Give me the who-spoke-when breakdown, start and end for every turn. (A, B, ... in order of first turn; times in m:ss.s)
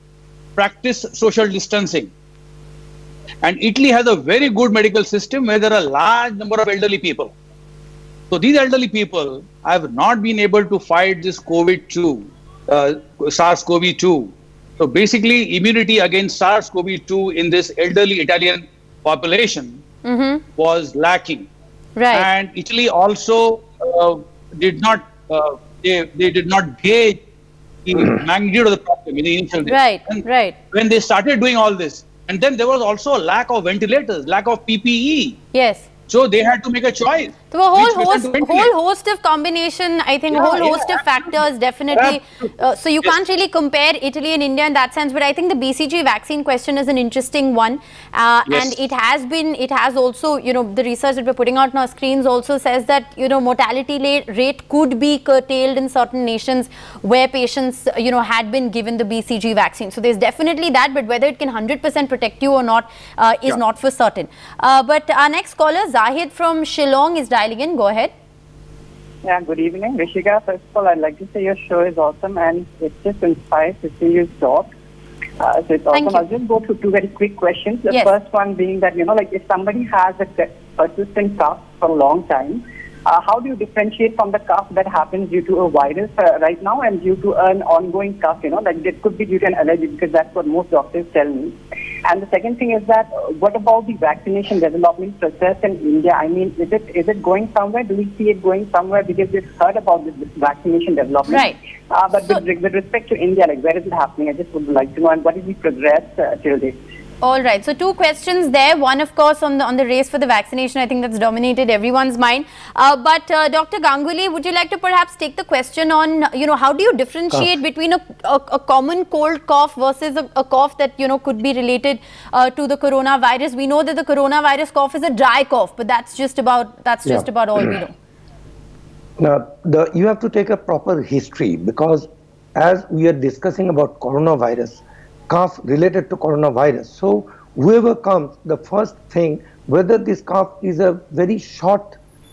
0:00.6-0:02.1 A
0:03.4-0:07.3 A
0:08.3-0:19.8 A
0:20.0-0:20.4 B
0:20.6-0:21.5 A
0:22.0-0:22.3 B
0:22.1-0:27.2 A
0:27.8-0:35.4 A
0:29.7-0:30.5 B
0:35.5-0:35.9 B
0:36.1-0:38.7 A
0:37.5-1:08.1 B
0:40.3-0:41.3 A
0:41.9-0:43.2 A
0:48.5-0:48.8 A
1:09.2-1:14.7 C
1:15.4-1:46.8 C
1:15.9-1:16.2 B
1:41.3-1:41.6 B
1:47.2-2:07.9 B
2:09.2-2:22.0 D